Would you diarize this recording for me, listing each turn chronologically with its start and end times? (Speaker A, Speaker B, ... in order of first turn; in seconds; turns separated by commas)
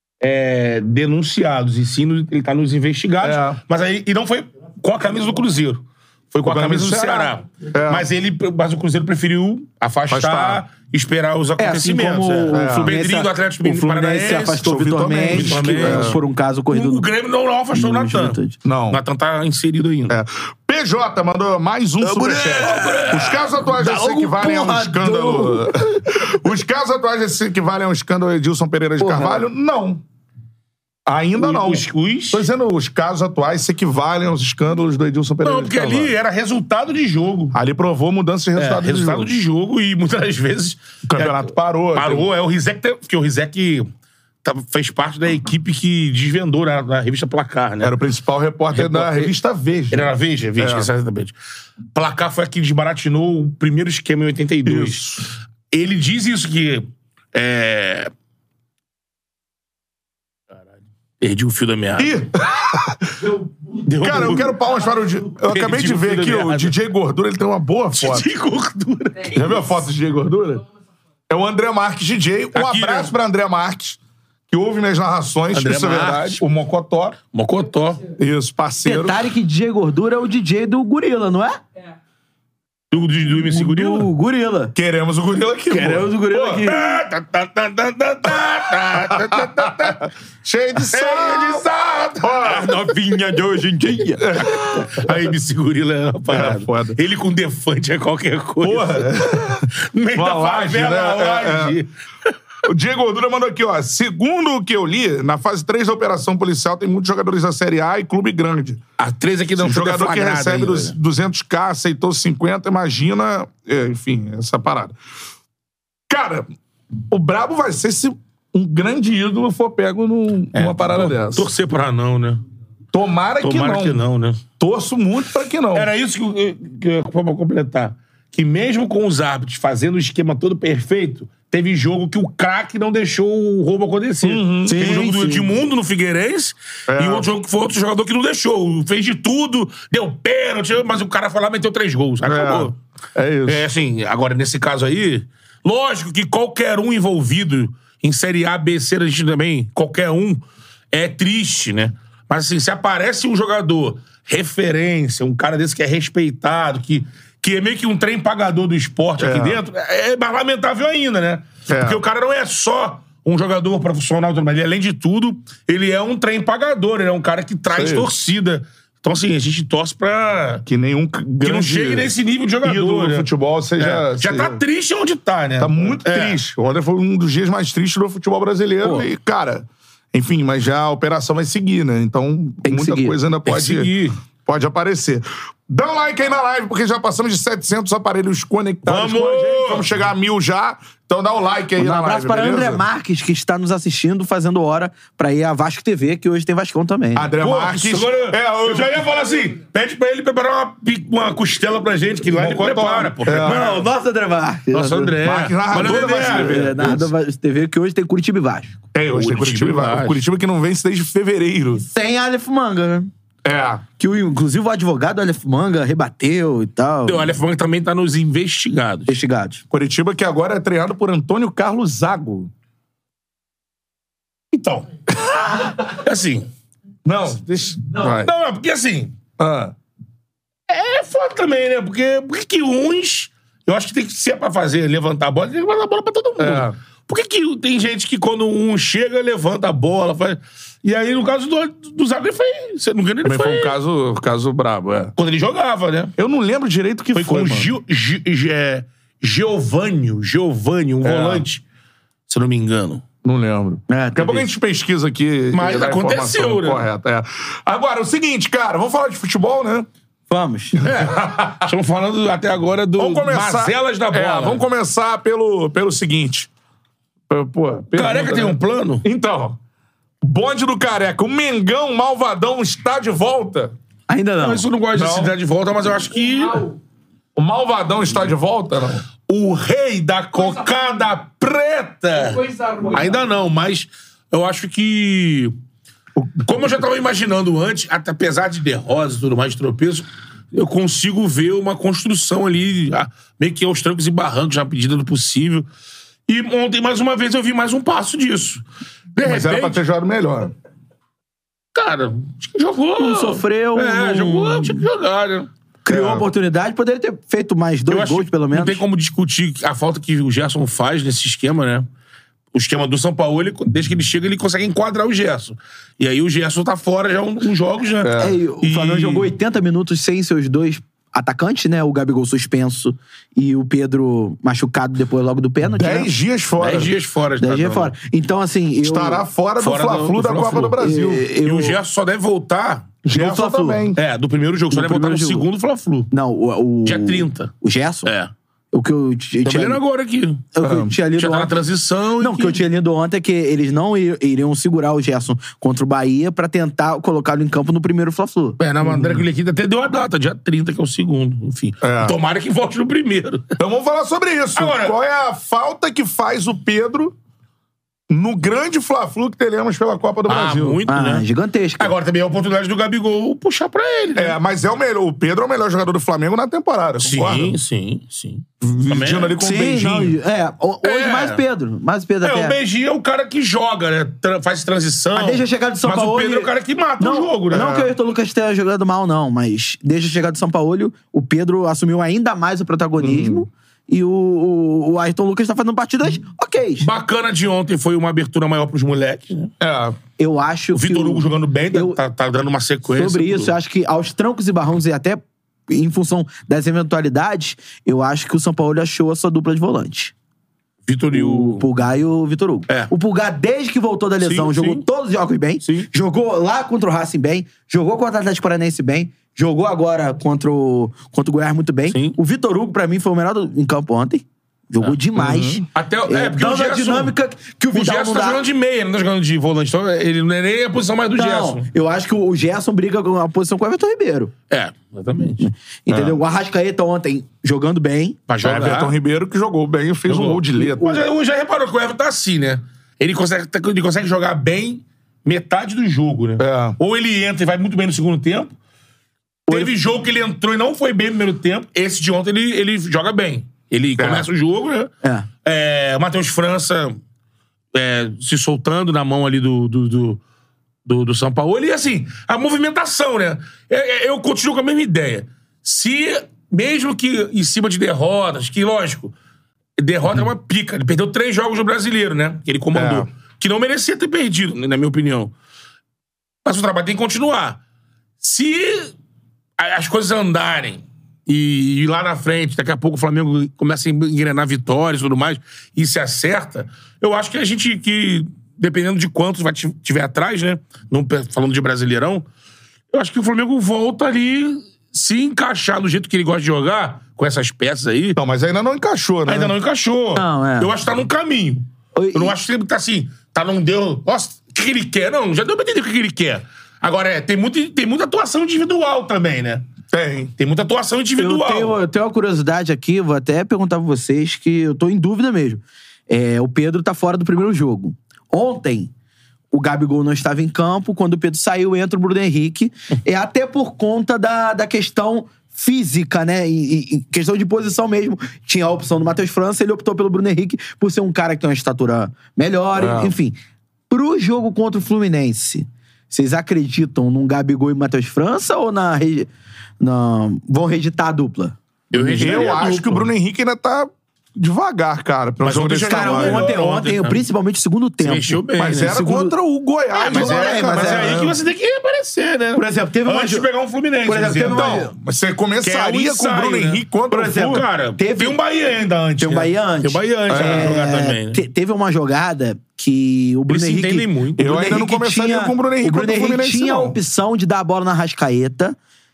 Speaker A: 0.2-14.7, Speaker B: 3.2-3.6, Speaker B: 6.4-8.1, Speaker B: 10.1-10.6, Speaker C: 11.6-17.1, Speaker B: 12.5-12.9, Speaker B: 14.6-16.2, Speaker A: 15.3-18.4, Speaker C: 17.7-18.6, Speaker B: 18.6-19.0, Speaker A: 18.9-20.1, Speaker B: 20.1-30.0, Speaker A: 22.1-23.5, Speaker C: 22.2-26.3, Speaker C: 29.0-29.5, Speaker B: 31.1-36.1, Speaker A: 31.4-32.5, Speaker A: 35.4-37.5, Speaker B: 37.5-39.3, Speaker A: 38.6-43.9, Speaker B: 41.1-42.3, Speaker A: 44.4-47.9, Speaker B: 47.8-50.9, Speaker A: 48.7-49.3, Speaker A: 49.9-51.4, Speaker A: 51.9-55.2, Speaker B: 54.6-55.3, Speaker A: 55.7-58.1, Speaker A: 61.2-62.2, Speaker B: 62.0-63.1, Speaker A: 63.8-64.6, Speaker B: 64.0-68.3, Speaker A: 65.5-66.7, Speaker A: 68.0-69.6, Speaker B: 69.3-70.6, Speaker B: 71.3-74.0, Speaker A: 72.5-73.1, Speaker B: 74.5-77.2, Speaker A: 75.5-76.4, Speaker A: 77.3-78.0, Speaker B: 78.2-79.3, Speaker C: 78.8-81.6, Speaker A: 82.9-84.1, Speaker C: 83.4-84.7, Speaker B: 84.8-86.7, Speaker C: 85.7-87.0, Speaker A: 86.6-90.1, Speaker B: 88.8-91.7, Speaker A: 90.8-93.0, Speaker B: 92.2-92.7, Speaker C: 92.5-94.3, Speaker B: 94.2-95.1, Speaker A: 94.4-102.3, Speaker B: 96.3-97.0, Speaker B: 98.6-101.8, Speaker B: 102.6-108.8, Speaker A: 109.0-110.9, Speaker B: 109.6-115.0, Speaker B: 116.1-116.5, Speaker B: 117.1-121.5, Speaker A: 120.5-122.4, Speaker B: 122.9-124.0, Speaker A: 123.4-124.4, Speaker B: 124.6-125.9, Speaker A: 125.7-142.8, Speaker B: 134.2-135.1, Speaker C: 134.6-135.6, Speaker B: 136.9-137.3, Speaker B: 142.2-143.6, Speaker A: 143.5-170.6, Speaker B: 159.2-159.6, Speaker B: 161.7-162.0, Speaker B: 167.7-168.1, Speaker B: 170.7-172.1, Speaker A: 171.4-176.4, Speaker B: 172.6-174.6, Speaker B: 175.6-183.9, Speaker C: 182.6-183.2, Speaker A: 183.4-184.2, Speaker B: 184.4-192.8, Speaker A: 188.8-189.9, Speaker C: 191.8-197.3, Speaker B: 197.1-199.0, Speaker A: 197.4-203.8, Speaker B: 202.3-203.8, Speaker C: 203.3-205.2, Speaker A: 204.7-206.7, Speaker B: 205.2-207.1, Speaker C: 205.8-208.8, Speaker B: 208.9-211.8, Speaker A: 209.1-210.2, Speaker C: 211.8-213.1, Speaker B: 213.4-213.8, Speaker C: 214.0-217.3, Speaker A: 217.1-219.2, Speaker C: 219.1-219.6, Speaker B: 219.7-222.5, Speaker A: 224.5-224.9, Speaker B: 225.1-225.6, Speaker A: 225.6-226.5, Speaker B: 227.1-228.3, Speaker A: 227.9-229.1, Speaker B: 229.4-229.7, Speaker A: 230.7-243.8, Speaker B: 236.4-236.8, Speaker B: 243.2-245.1, Speaker A: 245.2-246.1, Speaker B: 246.2-247.7, Speaker A: 247.1-251.6, Speaker B: 251.0-251.4, Speaker A: 252.3-253.0, Speaker B: 253.2-259.9, Speaker C: 253.9-254.5, Speaker A: 255.5-256.9, Speaker C: 260.3-260.8, Speaker B: 260.8-261.6, Speaker A: 260.8-264.6, Speaker B: 263.0-266.5, Speaker B: 267.3-269.6, Speaker A: 267.9-269.0, Speaker B: 270.2-273.7, Speaker C: 274.1-274.6, Speaker A: 274.4-276.8, Speaker B: 274.9-275.3, Speaker B: 277.4-279.1, Speaker A: 279.3-285.5, Speaker B: 286.1-286.6, Speaker A: 286.5-295.7, Speaker A: 296.3-298.6, Speaker A: 299.1-299.8, Speaker B: 299.2-300.5, Speaker A: 301.7-305.5, Speaker C: 303.0-304.9, Speaker C: 305.9-308.8, Speaker B: 305.9-306.2, Speaker A: 307.9-311.9, Speaker A: 312.5-319.3, Speaker B: 318.0-318.4, Speaker C: 318.2-326.1, Speaker B: 325.8-326.9, Speaker A: 326.6-327.9, Speaker C: 327.4-329.3, Speaker B: 328.8-331.3, Speaker A: 329.6-330.8, Speaker C: 330.8-331.8, Speaker A: 331.4-333.0, Speaker B: 333.0-334.0, Speaker C: 333.1-333.9, Speaker A: 333.9-336.1, Speaker C: 334.7-335.4, Speaker C: 336.1-338.1, Speaker A: 336.9-337.5, Speaker A: 338.1-338.3, Speaker C: 338.7-339.8, Speaker A: 339.4-340.5, Speaker C: 340.5-341.6, Speaker B: 340.6-340.9, Speaker A: 341.1-342.6, Speaker C: 342.2-348.6, Speaker A: 348.6-353.6, Speaker B: 351.8-352.2, Speaker B: 353.6-357.1, Speaker A: 354.6-354.9, Speaker B: 358.1-360.8, Speaker A: 360.3-361.3, Speaker C: 360.9-361.9, Speaker A: 361.8-364.4, Speaker B: 364.2-367.6, Speaker A: 367.0-369.4, Speaker B: 368.6-370.2, Speaker C: 369.4-372.6, Speaker A: 370.8-371.4, Speaker A: 372.2-377.8, Speaker C: 375.1-386.9, Speaker B: 377.5-377.9, Speaker B: 383.0-383.4, Speaker A: 386.8-389.5, Speaker B: 389.6-390.0, Speaker C: 390.2-392.0, Speaker A: 390.7-393.5, Speaker C: 392.9-400.1, Speaker A: 400.9-401.7, Speaker C: 401.1-418.4, Speaker A: 404.2-404.8, Speaker A: 411.9-412.2, Speaker B: 415.2-415.6, Speaker A: 415.7-417.1, Speaker A: 417.7-421.7, Speaker C: 421.1-424.3, Speaker A: 424.5-426.1, Speaker C: 425.4-428.2, Speaker A: 428.3-428.9, Speaker B: 428.4-431.0, Speaker A: 430.1-438.5, Speaker B: 436.4-436.8, Speaker C: 439.5-439.7, Speaker A: 439.5-444.9, Speaker B: 444.0-444.3, Speaker A: 445.4-447.0, Speaker A: 447.7-450.2, Speaker A: 450.9-459.1, Speaker A: 459.8-465.3, Speaker B: 462.7-463.1, Speaker A: 466.4-467.6, Speaker A: 468.2-468.9, Speaker A: 469.6-482.2, Speaker A: 482.9-488.2, Speaker B: 488.2-489.5, Speaker A: 489.3-499.6, Speaker C: 490.1-490.7, Speaker C: 491.9-492.4, Speaker B: 499.9-500.3, Speaker A: 500.4-501.8, Speaker C: 501.2-508.9, Speaker C: 509.5-523.4, Speaker B: 522.8-523.1, Speaker C: 523.9-529.3, Speaker C: 529.8-532.5, Speaker A: 531.9-533.1, Speaker B: 532.2-536.5, Speaker A: 535.4-537.2, Speaker C: 535.9-539.4, Speaker A: 538.0-539.0, Speaker B: 538.6-541.4, Speaker A: 540.0-544.9, Speaker C: 540.0-541.3, Speaker C: 542.5-543.5, Speaker C: 544.0-544.9, Speaker B: 544.4-547.6, Speaker A: 545.6-551.4, Speaker C: 547.1-548.4, Speaker C: 549.2-558.8, Speaker B: 550.3-550.7, Speaker A: 553.5-554.7, Speaker B: 554.4-557.0